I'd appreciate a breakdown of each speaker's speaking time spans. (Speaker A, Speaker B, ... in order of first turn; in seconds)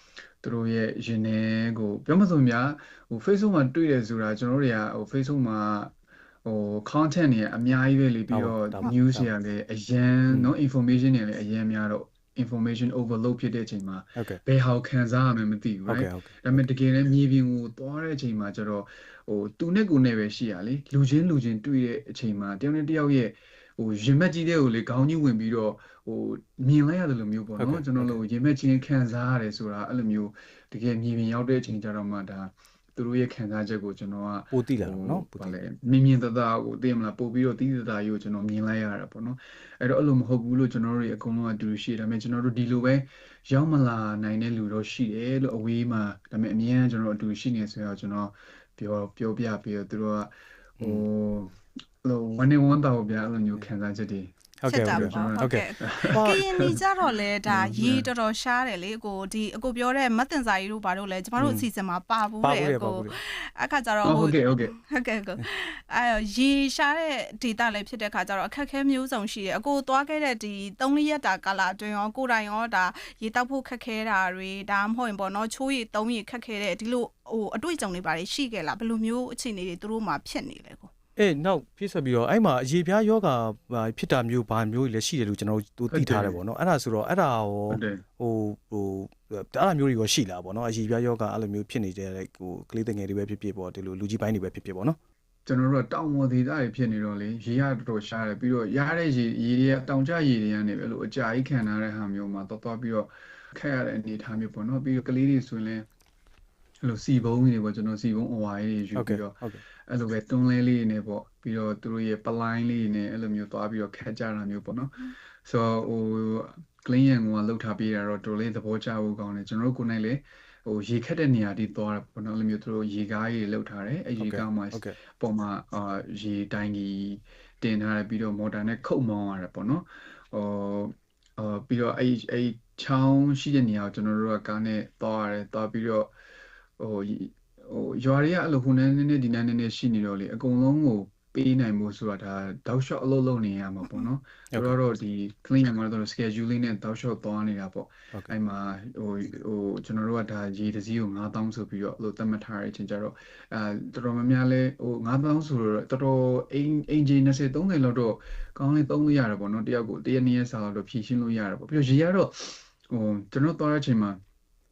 Speaker A: 0.4-5.9, 6.4-54.3, 54.9-56.8, 57.5-58.1, 64.0-64.7, 85.9-86.4, 87.7-88.0, 95.5-105.8, 106.8-109.3, 109.9-136.1, 136.8-164.2
Speaker B: 8.3-9.3, 15.9-16.7, 27.6-28.2, 34.5-35.6, 50.8-51.0, 54.6-56.7, 61.4-61.7, 62.4-63.2, 81.2-95.0, 109.0-109.6, 124.2-124.9
Speaker C: 54.7-80.9